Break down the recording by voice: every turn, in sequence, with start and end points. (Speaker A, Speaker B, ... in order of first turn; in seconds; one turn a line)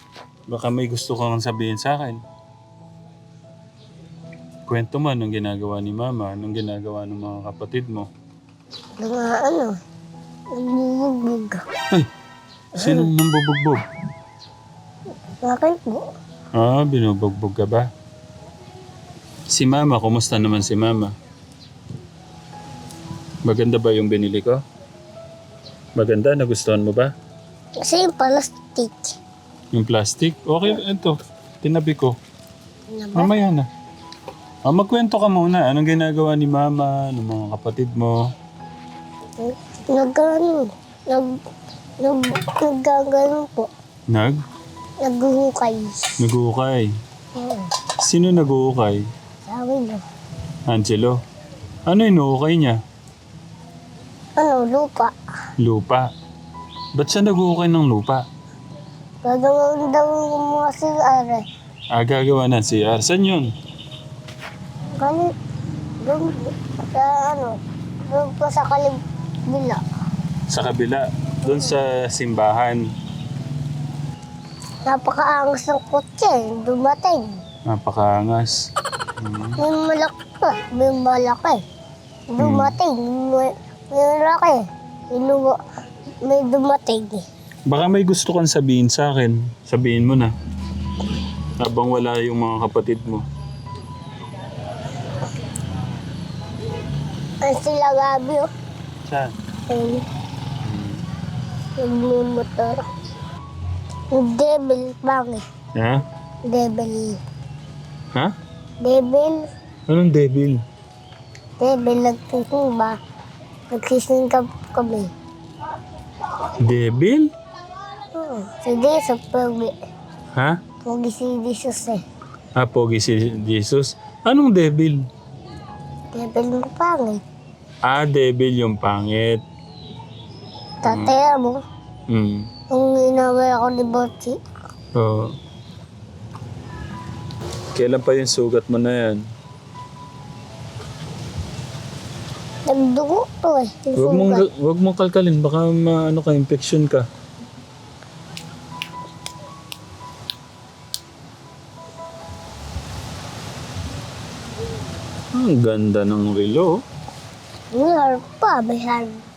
Speaker A: 0.5-2.2
Speaker A: 4.7-8.1
Speaker B: 9.0-9.7
Speaker B: 10.5-11.6
Speaker A: 12.8-13.8
Speaker B: 12.8-13.1
Speaker B: 15.4-16.1
Speaker A: 16.5-17.9
Speaker A: 19.5-21.1
Speaker A: 23.4-24.6
Speaker A: 25.9-27.1
Speaker B: 27.8-29.1
Speaker A: 29.7-32.2
Speaker B: 32.9-33.3
Speaker A: 33.1-33.7
Speaker A: 34.6-38.2
Speaker B: 39.4-41.3
Speaker B: 42.0-43.7
Speaker A: 44.1-44.4
Speaker B: 45.0-46.1
Speaker A: 46.2-46.9
Speaker B: 47.3-47.6
Speaker A: 48.0-49.0
Speaker B: 49.5-50.0
Speaker A: 50.7-51.2
Speaker A: 51.9-52.8
Speaker B: 54.4-55.1
Speaker A: 55.6-56.1
Speaker A: 57.0-58.2
Speaker B: 59.2-61.4
Speaker A: 61.9-63.5
Speaker B: 65.0-65.3
Speaker B: 66.0-67.6
Speaker B: 68.1-69.0
Speaker B: 69.5-69.8
Speaker A: 70.5-72.8
Speaker B: 74.8-77.3
Speaker A: 77.7-78.5
Speaker A: 79.2-79.6
Speaker B: 79.6-81.6
Speaker B: 82.3-84.6
Speaker A: 82.4-82.8
Speaker B: 85.1-85.5
Speaker B: 86.2-87.2
Speaker A: 87.7-90.3
Speaker A: 91.6-93.2
Speaker B: 97.4-98.5
Speaker A: 99.0-99.3
Speaker B: 99.7-100.0
Speaker A: 100.6-101.0
Speaker B: 101.8-102.8
Speaker B: 104.1-105.4
Speaker A: 105.7-106.0
Speaker B: 106.5-107.2
Speaker B: 108.8-109.4
Speaker A: 109.9-110.6
Speaker B: 111.6-113.0
Speaker B: 113.7-115.1
Speaker A: 116.6-117.3
Speaker B: 118.1-119.7
Speaker A: 120.3-120.6
Speaker B: 120.8-122.0
Speaker A: 122.5-125.1
Speaker B: 126.1-127.2
Speaker A: 127.8-129.4
Speaker B: 130.8-131.6
Speaker A: 130.8-131.2
Speaker A: 132.1-132.4
Speaker B: 132.7-134.3
Speaker A: 134.9-135.3
Speaker A: 137.7-139.2
Speaker B: 142.7-144.4
Speaker A: 143.9-147.0
Speaker A: 155.3-156.7
Speaker B: 157.7-159.2